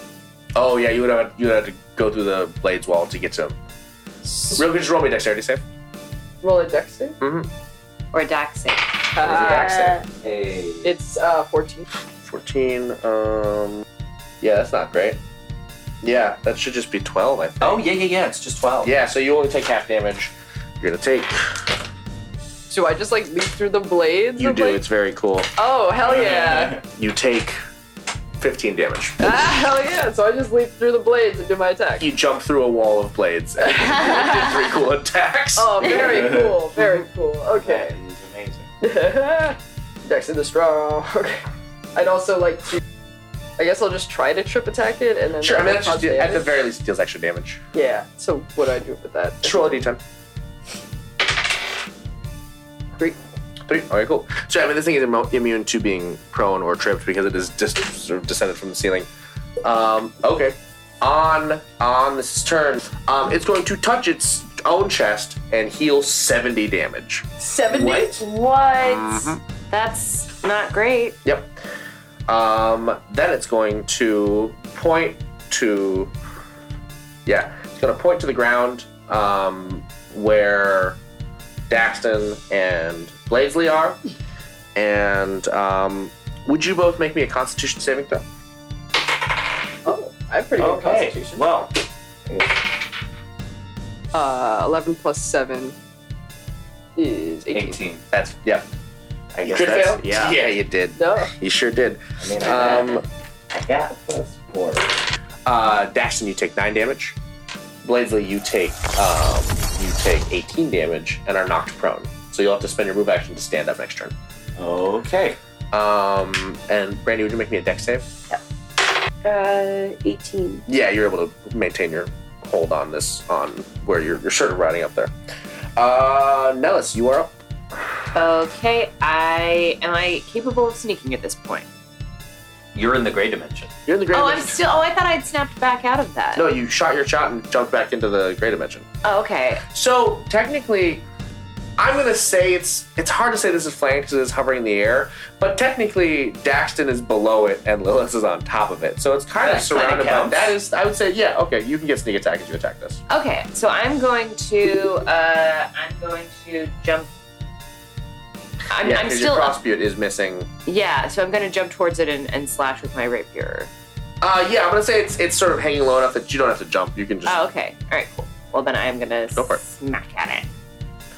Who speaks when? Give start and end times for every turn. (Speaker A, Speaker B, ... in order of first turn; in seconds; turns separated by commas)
Speaker A: 0.6-3.6, Speaker A: 4.5-5.6, Speaker B: 6.4-7.2, Speaker A: 7.2-7.5, Speaker C: 8.1-8.9, Speaker B: 9.1-9.8, Speaker A: 9.2-10.0, Speaker D: 9.5-10.0, Speaker E: 10.2-10.9, Speaker B: 10.8-11.8, Speaker A: 12.2-13.8, Speaker A: 14.4-15.2, Speaker A: 16.0-17.8, Speaker E: 17.6-18.9, Speaker A: 18.8-21.6, Speaker B: 22.7-24.8, Speaker A: 24.4-25.5, Speaker B: 25.6-26.8, Speaker F: 26.1-26.8, Speaker A: 26.9-27.6, Speaker A: 28.4-29.3, Speaker B: 29.2-32.1, Speaker A: 32.0-36.0, Speaker B: 33.6-34.5, Speaker B: 35.5-38.0, Speaker F: 36.0-36.6, Speaker F: 37.5-38.7, Speaker B: 38.8-41.4, Speaker B: 42.0-42.8, Speaker B: 43.6-46.5, Speaker A: 45.4-47.6, Speaker B: 47.7-49.8, Speaker A: 49.4-50.0, Speaker A: 53.7-59.1, Speaker A: 59.6-68.1, Speaker B: 67.4-68.2, Speaker D: 67.8-69.3, Speaker A: 68.8-69.4, Speaker C: 69.7-71.2, Speaker A: 71.2-71.5, Speaker A: 72.3-76.1, Speaker A: 77.3-81.0, Speaker A: 81.7-84.0, Speaker A: 84.8-88.2, Speaker B: 89.8-91.5, Speaker F: 90.6-91.7, Speaker F: 92.3-92.6, Speaker B: 94.1-95.8, Speaker B: 97.0-97.8, Speaker E: 97.5-98.0, Speaker A: 98.1-98.7, Speaker F: 99.3-100.4, Speaker A: 99.4-103.0, Speaker B: 101.0-101.3, Speaker F: 102.2-104.9, Speaker A: 105.5-107.2, Speaker A: 107.8-114.1, Speaker F: 114.6-115.4, Speaker A: 115.7-118.1, Speaker D: 119.2-120.7, Speaker A: 120.7-125.1, Speaker A: 125.8-127.4, Speaker C: 128.1-131.7, Speaker E: 132.7-133.7, Speaker A: 133.9-134.6, Speaker C: 134.1-136.5, Speaker A: 136.4-138.9, Speaker C: 139.0-139.6, Speaker A: 139.7-141.1, Speaker A: 141.8-153.0, Speaker E: 149.4-150.5, Speaker C: 153.1-157.1, Speaker C: 158.7-159.6, Speaker A: 158.8-160.5, Speaker C: 160.7-163.7, Speaker A: 164.2-167.4, Speaker C: 167.2-170.5, Speaker A: 169.3-169.6